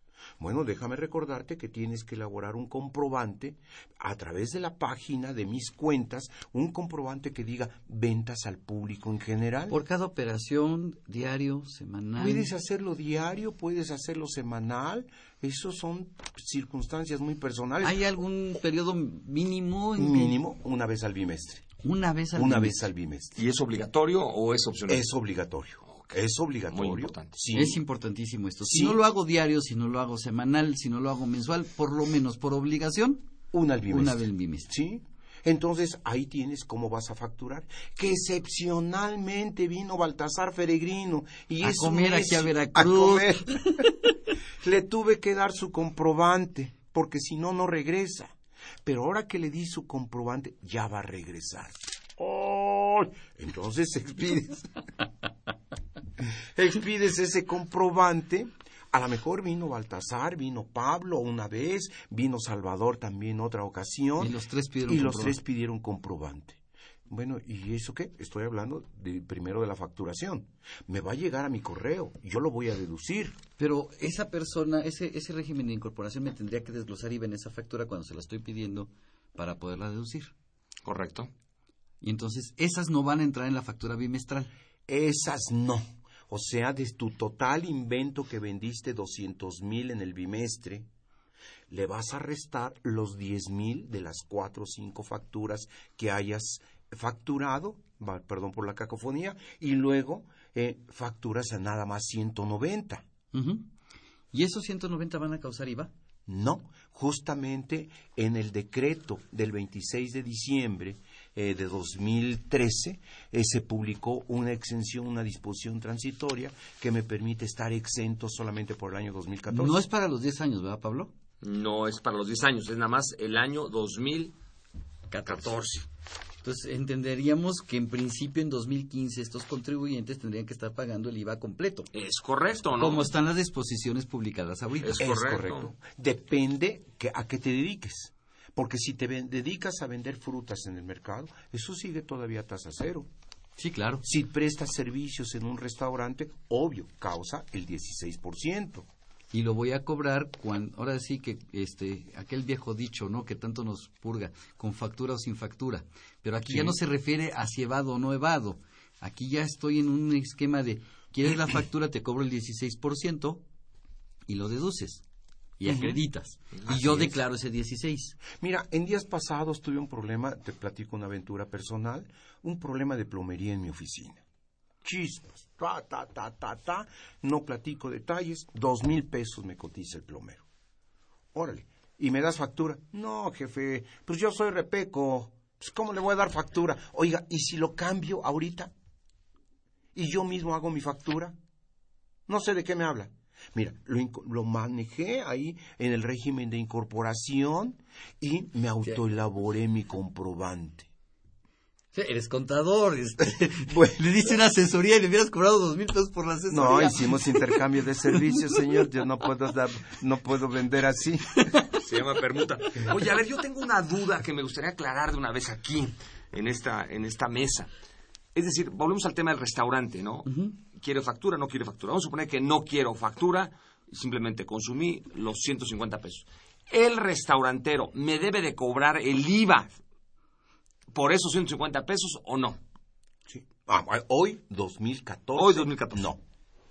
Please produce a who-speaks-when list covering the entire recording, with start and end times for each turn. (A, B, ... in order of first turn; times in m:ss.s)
0:00.4-0:09.8 A
0:09.7-0:12.5 B
0:12.2-0:18.0 A
0:17.8-0:20.4 B
0:20.0-0:21.7 A
0:21.8-0:22.8 B
0:22.4-0:23.4 A
0:23.4-0:25.1 C
0:24.9-0:27.8 A
0:26.7-0:27.4 C
0:27.5-0:33.3 B
0:28.6-0:29.0 A
0:33.5-0:43.8 A
0:33.9-0:34.7 B
0:41.6-0:43.9 B
0:44.6-0:48.3 A
0:48.8-0:54.7 A
0:56.6-1:13.4 A
1:04.2-1:05.4 B
1:13.6-1:20.3 B
1:20.8-1:21.3 C
1:22.0-1:24.5 B
1:24.9-1:30.9 A
1:31.7-1:43.1 A
1:43.3-1:43.7 B
1:44.3-1:45.9 B
1:46.3-1:59.9 A
1:59.5-2:01.1 B
2:01.4-2:04.3 C
2:05.1-2:05.5 B
2:05.3-2:05.9 C
2:06.4-2:11.9 B
2:11.9-2:13.1 C
2:12.8-2:15.0 B
2:14.8-2:15.7 C
2:15.0-2:23.1 A
2:23.6-2:24.0 B
2:24.0-2:28.9 A
2:29.3-2:43.4 B
2:36.5-2:36.8 A
2:44.3-2:45.0 B
2:45.6-2:48.2 B
2:45.7-2:46.0 A
2:46.7-2:47.1 A
2:48.4-2:54.2 A
2:54.8-3:00.4 A
3:01.3-3:08.7 A
3:10.0-3:11.4 A
3:12.3-3:20.9 A
3:21.9-3:27.5 B
3:23.7-3:24.0 A
3:26.5-3:31.5 A
3:31.5-3:31.8 B
3:31.8-3:37.7 C
3:38.4-3:49.7 C
3:40.3-3:40.6 B
3:50.9-3:52.6 C
3:53.3-3:56.2 A
3:55.4-3:56.1 C